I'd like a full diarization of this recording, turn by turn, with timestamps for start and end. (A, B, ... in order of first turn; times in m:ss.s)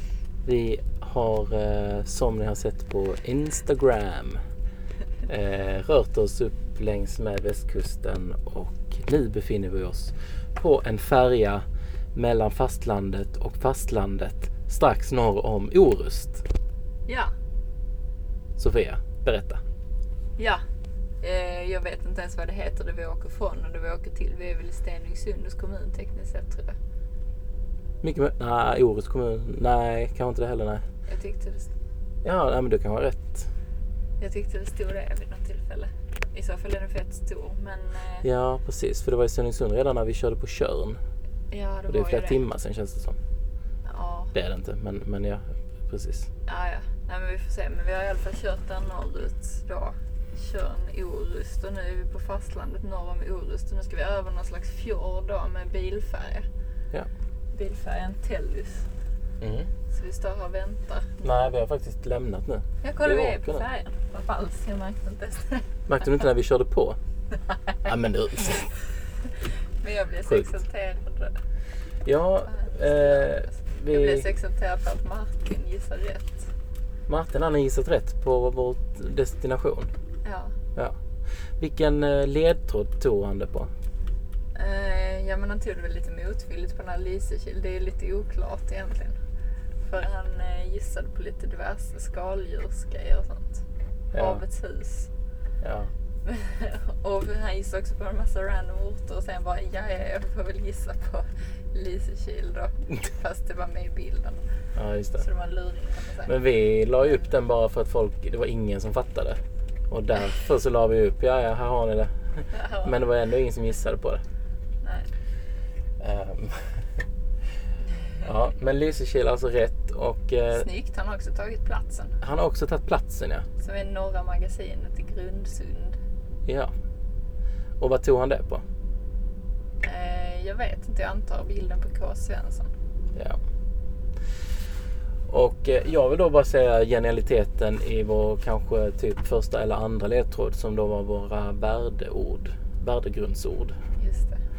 0:00.4-0:04.4 A
0:05.3-0:16.4 A
0:17.1-0:17.3 B
0:18.6-0:19.6 A
0:21.2-0:26.8 B
0:28.0-0:30.8 A
0:31.1-0:31.7 B
0:32.2-0:33.5 A
0:34.2-0:38.3 B
0:38.2-0:41.0 A
0:41.5-0:42.4 B
0:41.9-0:43.2 A
0:43.8-0:44.3 B
0:44.3-0:46.3 A
0:46.4-0:56.5 B
0:57.5-0:58.9 B
0:59.4-0:59.7 A
0:59.9-1:01.3 B
1:01.2-1:03.6 A
1:02.8-1:05.7 B
1:05.9-1:07.0 A
1:07.8-1:08.7 A
1:09.8-1:11.4 B
1:12.0-1:14.3 A
1:12.5-1:16.5 B
1:17.1-1:19.9 A
1:20.2-1:20.6 B
1:21.6-1:23.7 A
1:24.6-1:29.2 B
1:29.8-1:33.6 B
1:34.1-1:34.4 A
1:34.2-1:35.1 B
1:35.6-1:35.9 A
1:36.2-1:44.4 B
1:44.8-1:45.3 A
1:45.2-1:46.3 B
1:46.2-1:54.2 A
1:47.0-1:47.3 B
1:52.5-1:53.0 B
1:54.8-1:55.1 B
1:56.0-1:56.8 A
1:58.2-2:00.7 A
2:00.5-2:02.2 B
2:02.2-2:03.5 A
2:03.6-2:06.0 B
2:06.4-2:06.7 A
2:07.8-2:08.6 A
2:09.8-2:12.7 B
2:15.3-2:23.8 A
2:24.0-2:24.4 B